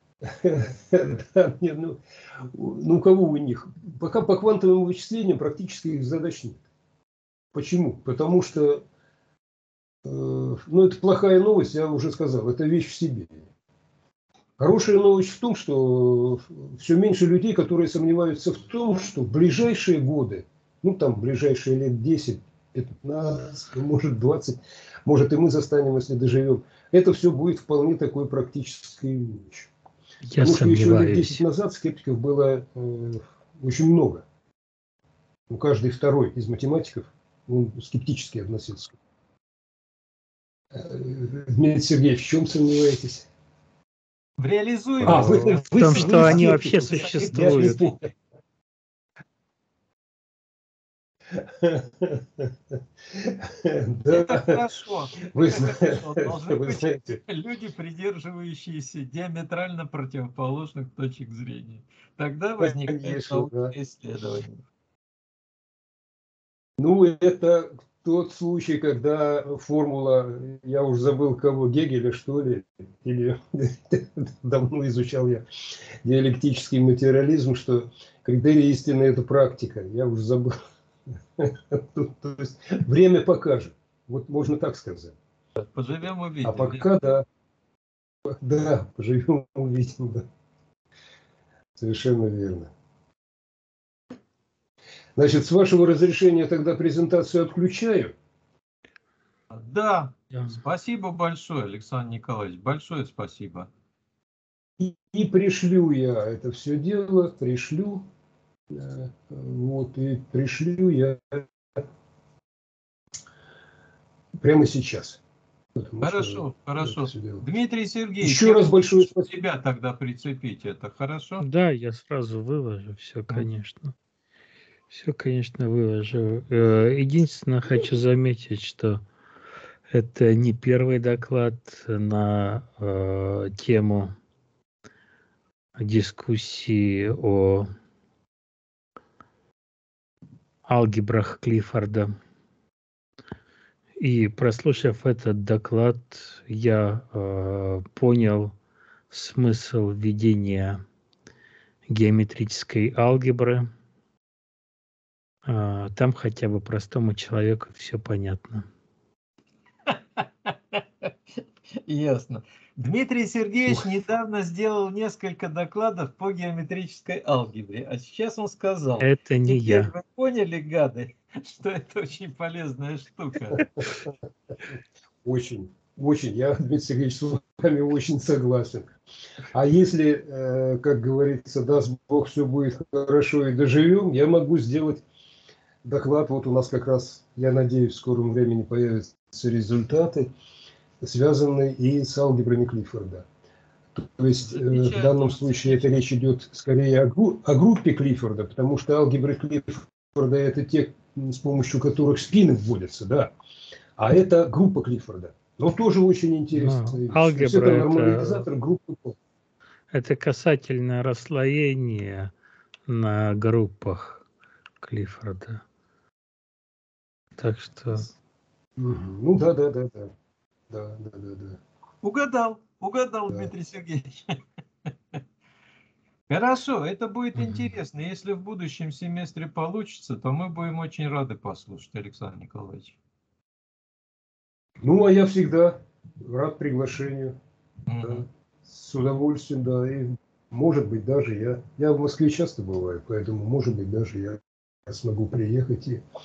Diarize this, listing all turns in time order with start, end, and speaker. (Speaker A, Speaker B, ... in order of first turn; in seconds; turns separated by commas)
Speaker A: 0.2-6.6, Speaker A: 7.5-8.8, Speaker A: 10.1-13.5, Speaker A: 14.6-29.7, Speaker B: 30.3-31.4, Speaker A: 30.4-34.2, Speaker A: 35.5-39.0, Speaker A: 40.7-43.3, Speaker C: 44.4-48.0, Speaker A: 45.0-48.1, Speaker B: 45.1-47.8, Speaker A: 51.4-52.5, Speaker A: 53.1-54.6, Speaker C: 54.1-64.6, Speaker A: 55.3-57.2, Speaker A: 62.6-63.7, Speaker A: 66.8-75.5, Speaker A: 76.0-80.5, Speaker A: 81.4-85.2, Speaker C: 85.6-86.8, Speaker A: 86.4-87.3, Speaker A: 88.2-90.3, Speaker A: 91.8-92.7, Speaker A: 95.2-98.2, Speaker C: 99.5-103.7, Speaker A: 104.8-108.1, Speaker A: 108.7-111.5, Speaker A: 114.4-115.2, Speaker A: 115.8-117.5, Speaker C: 116.0-121.5, Speaker A: 118.2-119.3, Speaker B: 121.4-124.0, Speaker B: 124.9-129.0, Speaker B: 129.9-134.1, Speaker B: 135.8-137.7, Speaker B: 140.7-142.1, Speaker B: 144.0-148.5, Speaker B: 149.1-150.8, Speaker B: 151.9-153.7, Speaker B: 155.4-158.7, Speaker C: 159.9-161.1, Speaker C: 161.8-173.7, Speaker B: 169.0-169.9, Speaker A: 173.5-174.1, Speaker A: 175.2-178.9, Speaker A: 179.5-185.0, Speaker A: 185.8-190.3, Speaker A: 191.0-193.3, Speaker A: 193.9-203.3, Speaker C: 194.4-195.8, Speaker A: 204.0-209.2, Speaker B: 206.5-208.5, Speaker B: 209.9-212.3, Speaker B: 212.9-214.2, Speaker B: 214.8-215.6, Speaker B: 217.4-218.1, Speaker A: 218.8-220.1, Speaker A: 220.7-221.6, Speaker C: 222.0-224.4, Speaker C: 226.3-233.0, Speaker A: 234.8-237.4, Speaker C: 237.9-238.2, Speaker A: 238.0-246.0